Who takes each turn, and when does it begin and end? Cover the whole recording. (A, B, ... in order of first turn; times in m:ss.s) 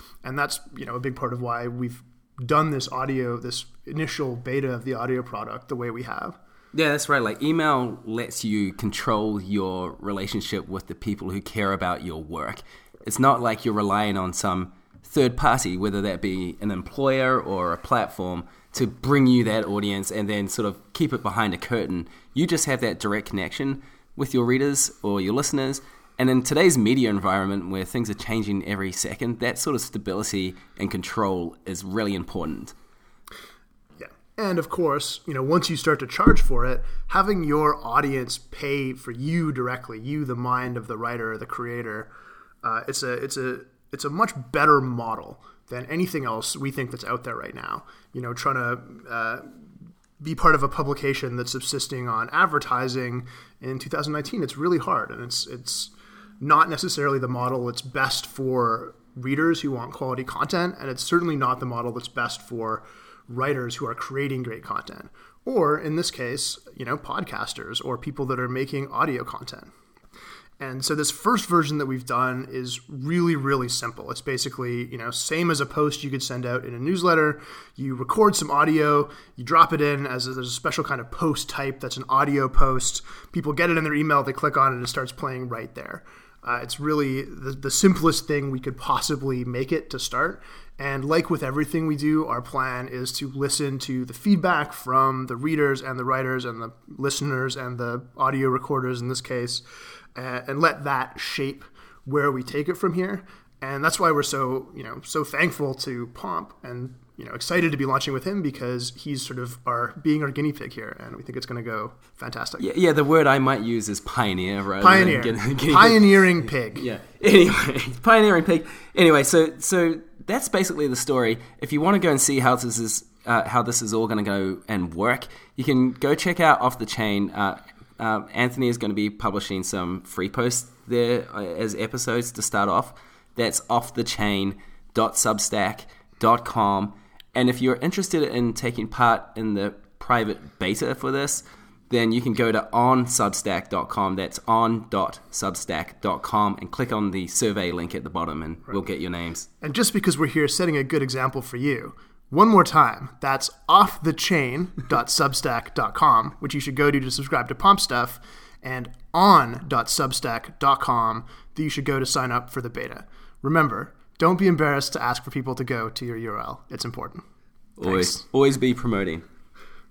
0:00.2-0:06.4 A
0:06.7-0:32.7 B
0:34.0-0:42.1 A
0:42.6-0:49.5 A
0:50.2-1:09.7 A
1:10.6-1:39.6 A
1:40.2-1:52.7 A
1:52.6-2:29.5 B
1:54.8-1:56.8 A
2:29.6-2:47.2 A
2:47.8-2:49.2 B
2:47.8-2:48.2 A